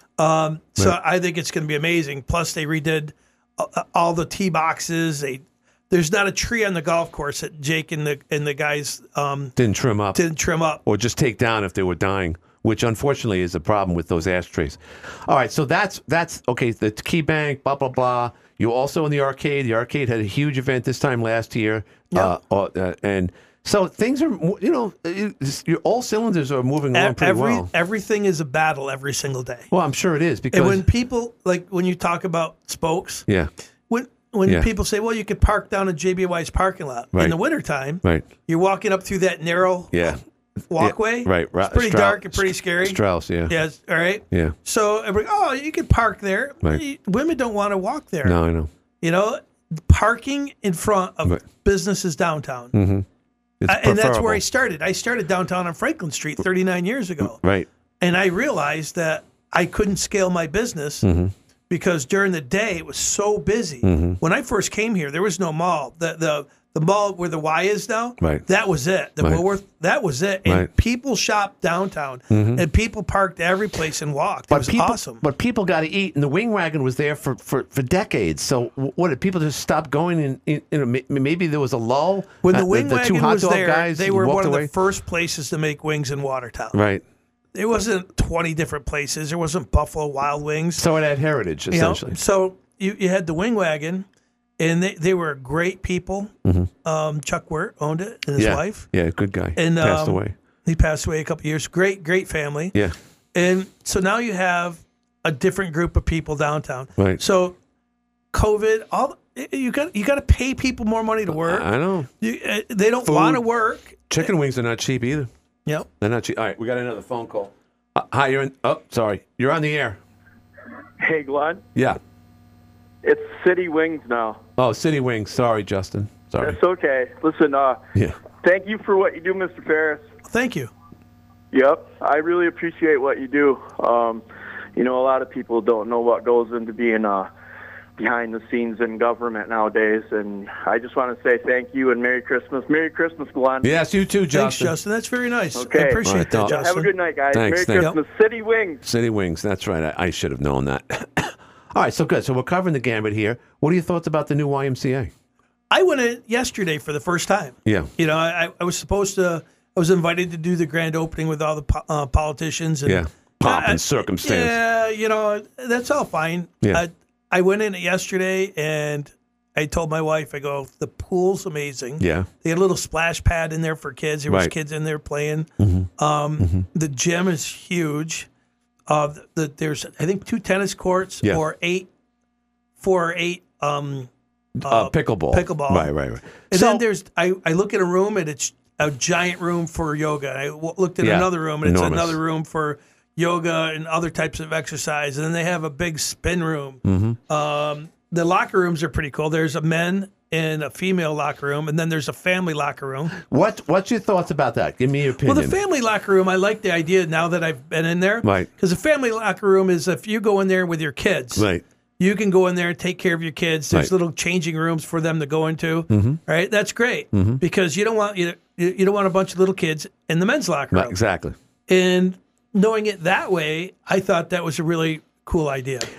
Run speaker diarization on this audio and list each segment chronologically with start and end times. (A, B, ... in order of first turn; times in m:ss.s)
0:00.2-0:09.6 A
0:09.6-0:10.2 B
0:10.1-0:10.8 A
0:10.8-0:27.7 B
0:26.9-0:29.7 A
0:29.7-0:30.9 B
0:30.5-0:33.3 A
0:33.9-0:39.9 A
0:38.0-0:38.3 B
0:39.9-0:40.2 B
0:40.7-0:48.4 A
0:40.7-0:43.6 B
0:48.2-0:48.7 B
0:49.0-0:52.8 A
0:52.7-0:53.1 B
0:53.6-0:54.4 B
0:53.7-0:57.4 A
0:57.2-0:57.7 B
0:58.0-1:01.1 A
1:01.0-1:01.3 B
1:01.7-1:15.2 A
1:03.8-1:04.2 B
1:12.3-1:12.6 B
1:14.5-1:24.7 B
1:22.4-1:26.8 A
1:26.7-1:27.0 B
1:27.5-1:30.8 A
1:30.8-1:32.2 B
1:31.7-1:34.1 A
1:34.6-1:36.3 A
1:36.4-1:36.7 B
1:36.8-1:38.9 A
1:38.4-1:40.4 B
1:39.6-1:42.8 A
1:43.3-1:47.6 A
1:48.3-1:51.7 A
1:51.3-1:52.1 B
1:52.2-1:54.3 A
1:53.0-1:53.4 B
1:54.1-1:55.3 B
1:56.0-2:00.0 B
2:01.0-2:01.6 C
2:01.8-2:02.0 B
2:03.0-2:04.4 C
2:04.6-2:06.6 B
2:06.4-2:07.8 C
2:08.4-2:10.0 C
2:10.3-2:10.7 A
2:11.5-2:14.2 C
2:14.8-2:17.3 C
2:18.0-2:23.7 C
2:23.6-2:24.8 B
2:24.3-2:26.9 A
2:25.6-2:28.8 C
2:26.0-2:26.6 B
2:27.3-2:27.9 B
2:28.8-2:35.1 B
2:35.7-2:58.3 A
2:37.6-2:37.9 B
2:42.8-2:44.6 B
2:52.0-2:52.3 B
2:54.3-2:54.5 B
2:55.6-2:56.7 B
2:58.9-3:01.9 A
3:02.8-3:04.1 A
3:04.6-3:06.8 B
3:04.6-3:05.9 A
3:06.5-3:23.2 A
3:11.0-3:12.2 B
3:16.8-3:17.2 B
3:23.2-3:25.6 B
3:25.2-3:31.5 A
3:28.2-3:28.5 B
3:31.4-3:31.6 B
3:32.0-3:41.0 A
3:35.9-3:36.2 B
3:37.1-3:37.4 B
3:40.7-3:41.4 B
3:41.7-3:45.9 A